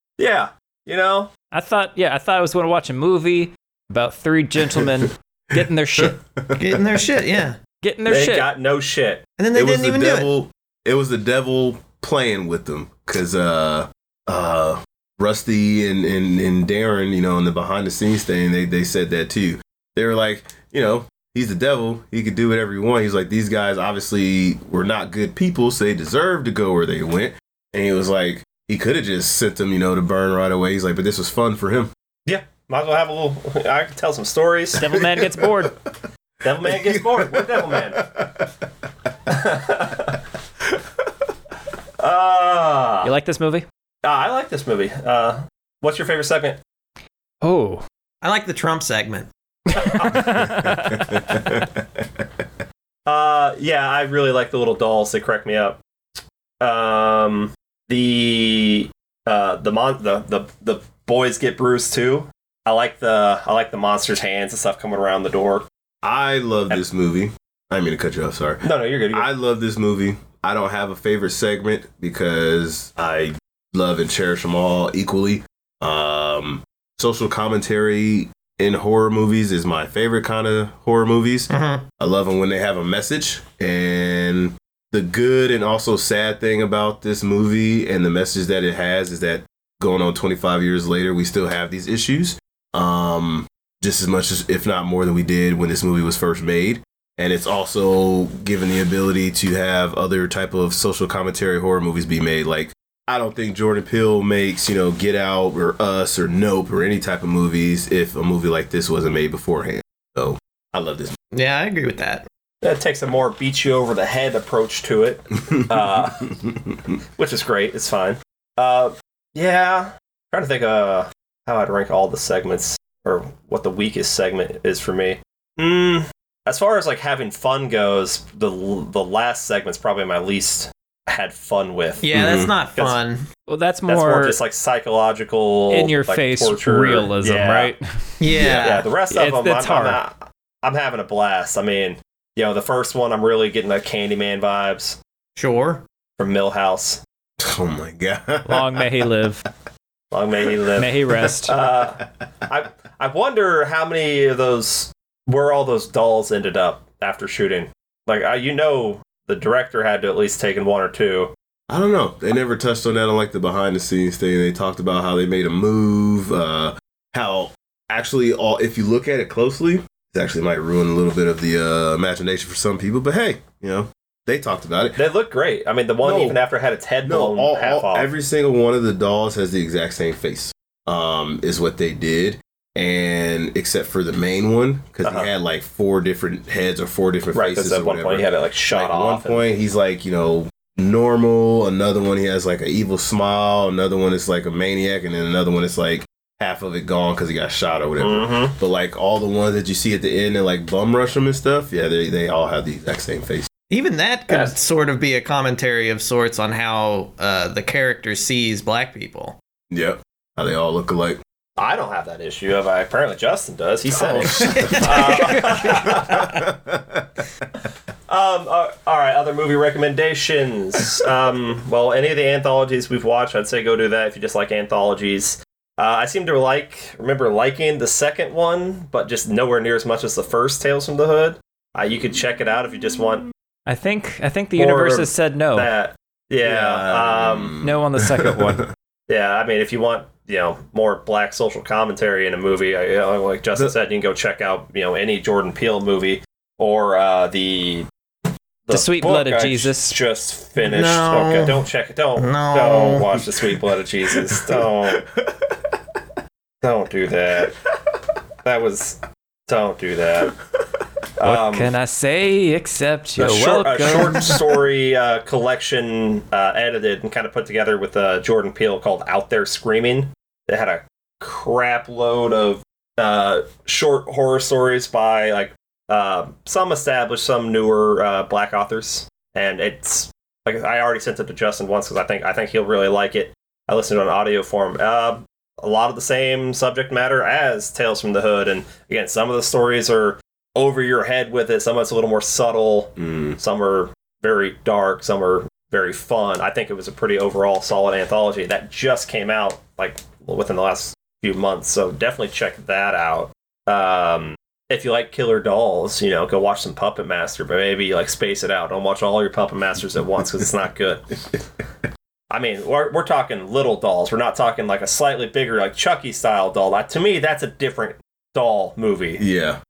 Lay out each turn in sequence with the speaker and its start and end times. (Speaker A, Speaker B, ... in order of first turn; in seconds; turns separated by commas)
Speaker A: 0.2-1.3, Speaker B: 1.5-6.2, Speaker C: 6.0-7.2, Speaker D: 6.6-7.6, Speaker B: 7.8-8.5, Speaker A: 8.1-9.2, Speaker D: 9.4-10.3, Speaker C: 9.5-31.9, Speaker A: 32.2-34.8, Speaker B: 34.7-35.7, Speaker C: 34.9-35.7, Speaker A: 36.4-38.0, Speaker C: 36.6-38.7, Speaker A: 39.3-40.2, Speaker A: 42.0-43.1, Speaker B: 43.0-43.6, Speaker A: 44.0-46.6, Speaker B: 47.4-47.8, Speaker D: 48.2-49.3, Speaker B: 49.7-51.6, Speaker A: 49.7-50.5, Speaker C: 50.9-51.6, Speaker A: 53.0-55.8, Speaker A: 56.6-65.7, Speaker C: 66.0-111.1, Speaker A: 68.6-69.3, Speaker D: 81.5-81.8, Speaker D: 111.3-112.2, Speaker A: 112.6-116.3, Speaker A: 117.2-132.0, Speaker D: 132.0-133.3, Speaker C: 132.1-132.5, Speaker B: 133.5-134.4, Speaker A: 133.9-137.7, Speaker B: 135.7-138.1, Speaker D: 138.2-138.9, Speaker A: 138.4-145.0, Speaker B: 139.1-140.0, Speaker D: 145.3-145.8, Speaker A: 146.2-147.0, Speaker C: 147.4-148.9, Speaker B: 148.4-149.4, Speaker A: 150.1-161.3, Speaker B: 150.8-151.5, Speaker C: 161.7-175.0, Speaker A: 174.9-178.1, Speaker C: 176.0-176.4, Speaker C: 177.0-203.5, Speaker A: 185.0-185.3, Speaker A: 187.3-189.4, Speaker A: 198.0-198.5, Speaker D: 203.7-209.4, Speaker C: 209.7-211.2, Speaker A: 211.6-216.4, Speaker C: 213.8-215.2, Speaker D: 214.2-215.9, Speaker B: 215.5-215.8, Speaker C: 215.9-217.1, Speaker A: 218.1-233.3, Speaker B: 233.7-235.7, Speaker A: 234.6-237.5, Speaker C: 236.4-238.6, Speaker B: 237.6-238.7, Speaker A: 239.1-247.8, Speaker A: 248.7-255.0, Speaker B: 248.7-250.0, Speaker D: 250.6-251.6, Speaker D: 252.2-253.1, Speaker C: 254.1-255.8, Speaker A: 256.6-257.5, Speaker A: 258.4-260.3, Speaker A: 261.2-261.7, Speaker B: 261.2-264.4, Speaker A: 263.2-311.0, Speaker C: 293.0-293.4, Speaker A: 312.3-319.2, Speaker C: 319.2-319.6